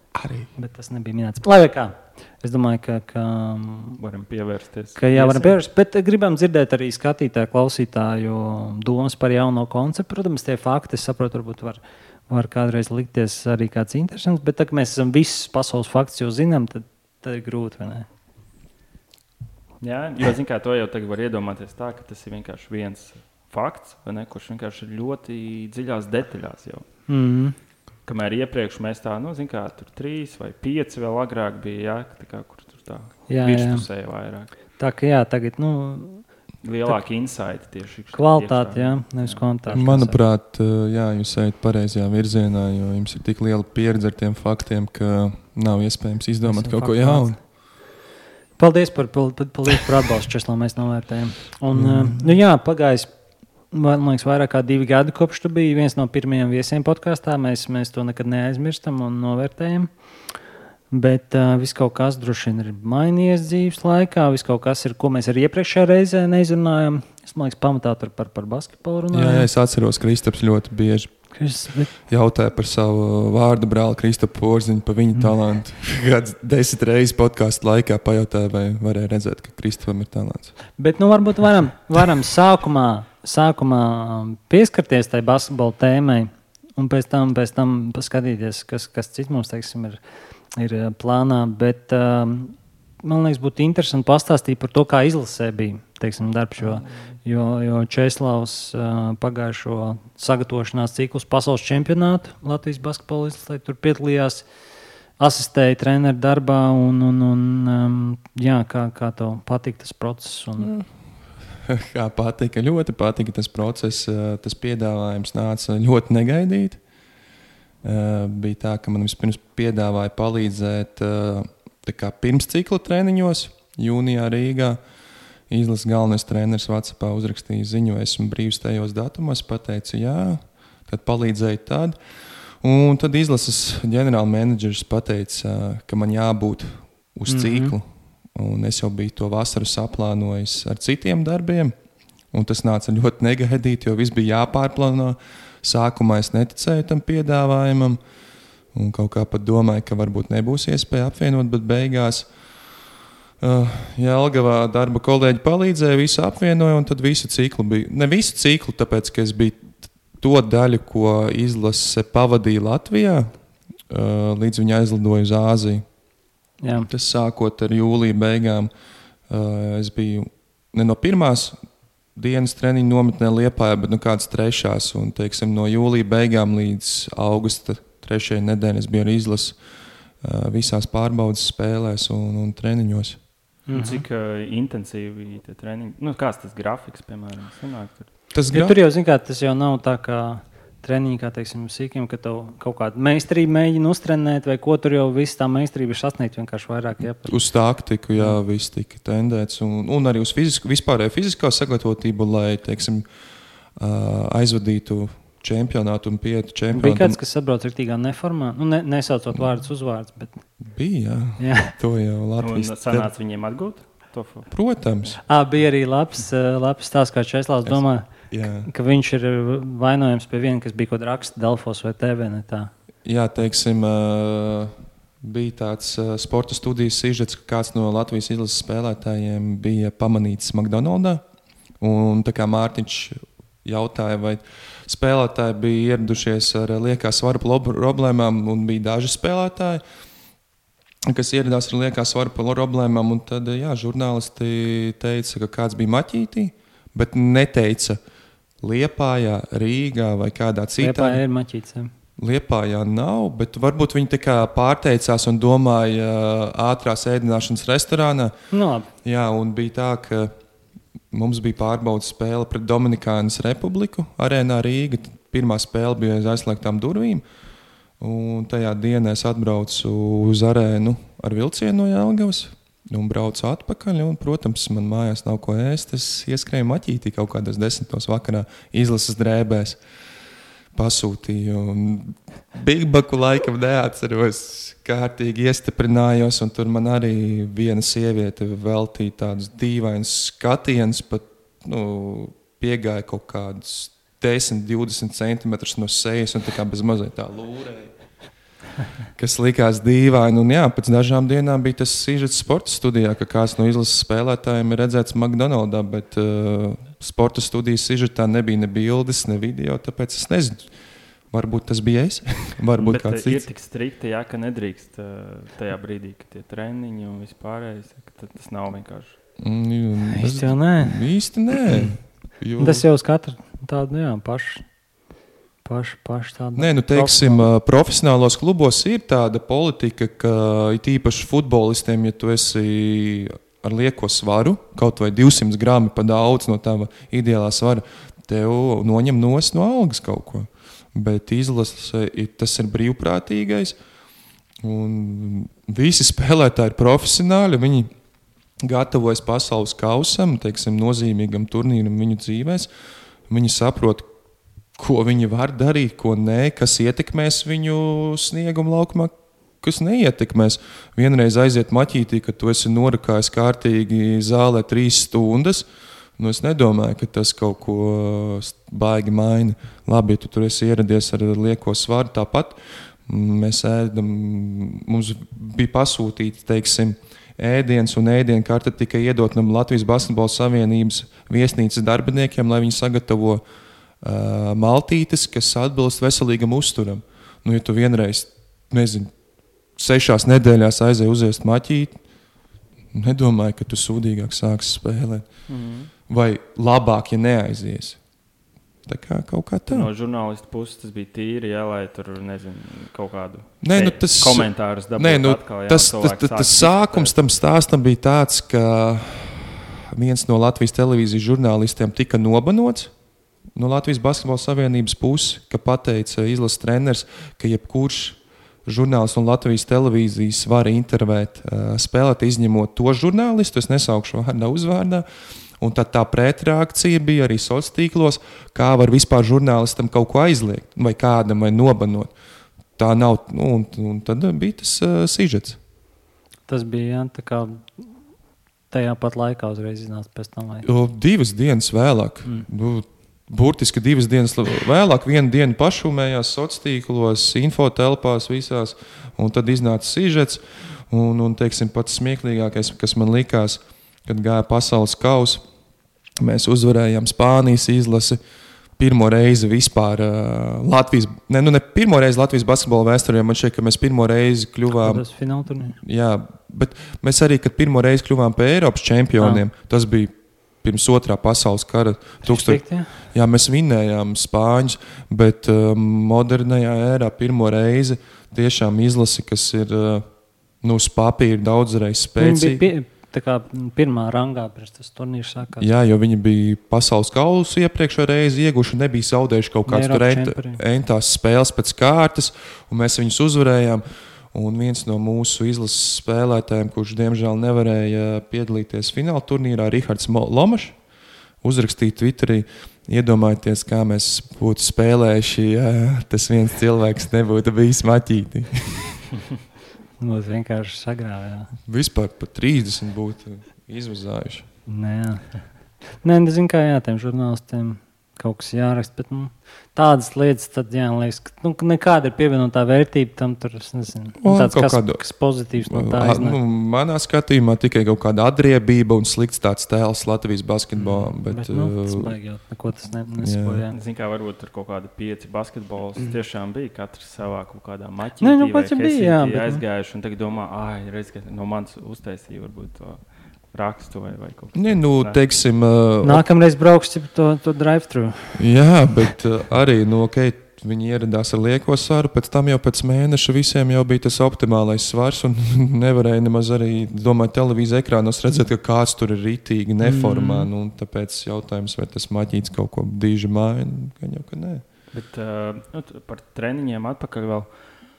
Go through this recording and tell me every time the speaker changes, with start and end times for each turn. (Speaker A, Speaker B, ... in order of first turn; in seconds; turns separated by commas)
Speaker A: 0.1-0.5, Speaker B: 0.6-4.0, Speaker C: 4.0-5.6, Speaker B: 5.0-18.1, Speaker C: 19.8-26.9, Speaker B: 27.1-27.5, Speaker C: 28.1-34.5, Speaker B: 33.3-33.8, Speaker B: 34.8-36.3, Speaker C: 36.6-39.8, Speaker B: 38.1-40.2, Speaker A: 39.7-47.4, Speaker B: 46.4-47.4, Speaker B: 48.6-53.1, Speaker A: 51.7-52.2, Speaker B: 53.7-59.9, Speaker B: 60.9-69.5, Speaker A: 69.1-71.1, Speaker B: 71.3-71.9, Speaker A: 72.1-80.5, Speaker B: 80.8-90.0, Speaker B: 90.5-104.4, Speaker B: 105.2-110.7, Speaker A: 110.6-110.9, Speaker A: 111.6-116.8, Speaker A: 117.8-124.8, Speaker A: 125.5-132.0, Speaker A: 132.6-137.8, Speaker B: 137.3-137.8, Speaker A: 138.3-141.7, Speaker A: 142.3-148.0, Speaker A: 148.7-152.3, Speaker A: 153.4-159.7, Speaker A: 160.2-163.3, Speaker A: 163.9-165.8, Speaker B: 166.6-166.9, Speaker A: 166.9-168.7, Speaker A: 169.3-171.6, Speaker A: 172.2-179.6, Speaker A: 180.2-183.2, Speaker B: 183.7-184.0, Speaker C: 183.7-188.1, Speaker A: 188.3-188.8, Speaker B: 188.5-197.3, Speaker A: 197.2-203.0, Speaker A: 203.8-207.2, Speaker B: 206.7-210.4, Speaker A: 210.6-213.1, Speaker B: 211.4-211.8, Speaker C: 212.4-214.5, Speaker A: 214.5-215.2, Speaker B: 215.3-218.1, Speaker A: 217.6-218.7, Speaker B: 218.6-222.7, Speaker A: 223.0-231.2, Speaker A: 231.8-239.8, Speaker A: 241.1-248.0, Speaker A: 248.6-251.2, Speaker B: 250.8-251.9, Speaker A: 252.2-258.3, Speaker B: 258.5-258.9, Speaker A: 259.0-260.3, Speaker A: 261.1-267.2, Speaker A: 268.0-279.8, Speaker A: 280.7-297.9, Speaker A: 299.2-310.7, Speaker A: 311.3-313.4, Speaker C: 312.8-319.1, Speaker A: 319.4-322.9, Speaker B: 320.1-321.0, Speaker B: 321.7-321.9, Speaker B: 322.6-324.6, Speaker B: 325.6-327.5, Speaker A: 326.6-343.8, Speaker A: 344.6-347.9, Speaker A: 348.6-352.7, Speaker A: 353.3-354.1, Speaker A: 354.8-365.6, Speaker A: 366.2-383.4, Speaker A: 384.0-389.1, Speaker A: 389.8-391.9, Speaker A: 392.9-395.2, Speaker C: 395.5-395.9, Speaker A: 396.1-398.0, Speaker A: 398.9-399.9, Speaker C: 399.7-407.1, Speaker A: 403.6-412.9, Speaker A: 413.5-425.0, Speaker A: 425.6-432.1, Speaker A: 432.8-435.6, Speaker B: 436.5-437.9, Speaker B: 438.7-440.7, Speaker A: 440.6-455.4, Speaker A: 456.2-458.2, Speaker A: 458.8-465.0, Speaker B: 464.7-465.8, Speaker A: 465.7-480.0, Speaker B: 472.2-473.0, Speaker A: 480.6-482.6, Speaker B: 482.2-485.7, Speaker A: 485.6-500.7, Speaker B: 489.6-490.6, Speaker A: 501.4-509.0, Speaker B: 510.0-511.5, Speaker A: 511.6-514.4, Speaker B: 514.7-515.2, Speaker B: 516.0-526.4, Speaker A: 524.2-525.0, Speaker A: 525.6-532.1, Speaker B: 530.8-533.8, Speaker A: 533.2-533.6, Speaker C: 533.7-545.2, Speaker B: 538.2-539.6, Speaker A: 544.5-546.2, Speaker B: 546.0-548.4, Speaker A: 548.4-564.6, Speaker B: 559.8-560.5, Speaker C: 564.9-567.5